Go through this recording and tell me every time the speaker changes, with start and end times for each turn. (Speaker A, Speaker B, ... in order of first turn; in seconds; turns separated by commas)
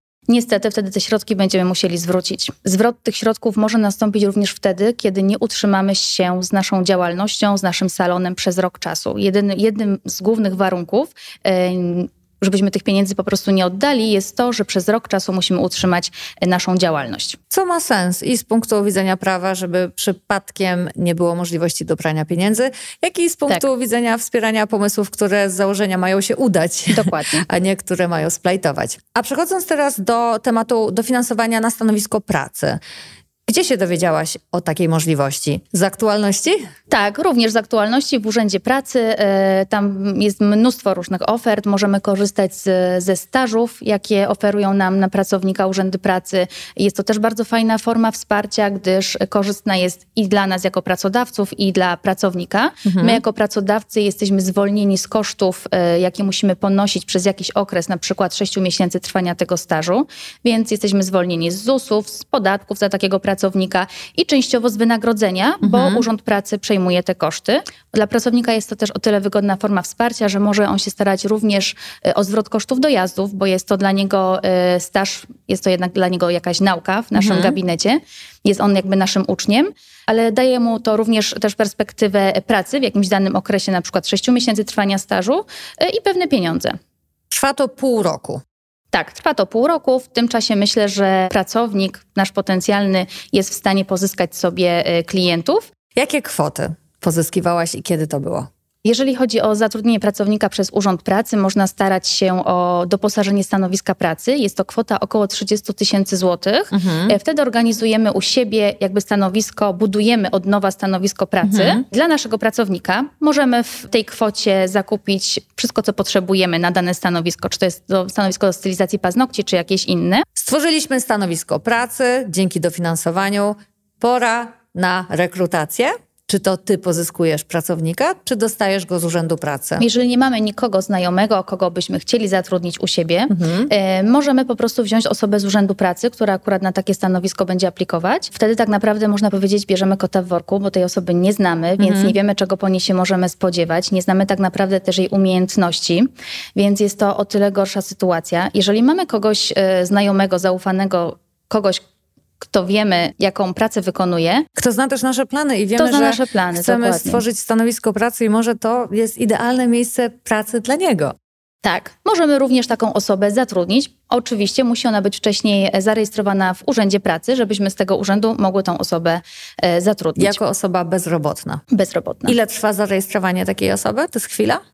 Speaker A: 0.3-17.4, Speaker B: 17.5-32.8, Speaker A: 26.9-27.4, Speaker B: 33.5-36.6, Speaker A: 36.9-86.8, Speaker B: 52.8-53.2, Speaker B: 65.6-66.0, Speaker B: 77.2-77.5, Speaker B: 87.3-88.4, Speaker A: 88.9-95.7, Speaker B: 96.0-98.5, Speaker A: 98.8-120.2, Speaker B: 106.7-107.2, Speaker B: 111.4-111.8, Speaker B: 120.3-129.8, Speaker A: 129.8-151.8, Speaker B: 133.3-133.7, Speaker B: 141.8-142.1, Speaker A: 152.4-154.4, Speaker B: 154.6-161.2, Speaker A: 155.7-157.2, Speaker A: 161.6-170.4, Speaker B: 170.2-171.6, Speaker A: 171.7-172.3, Speaker B: 172.2-174.6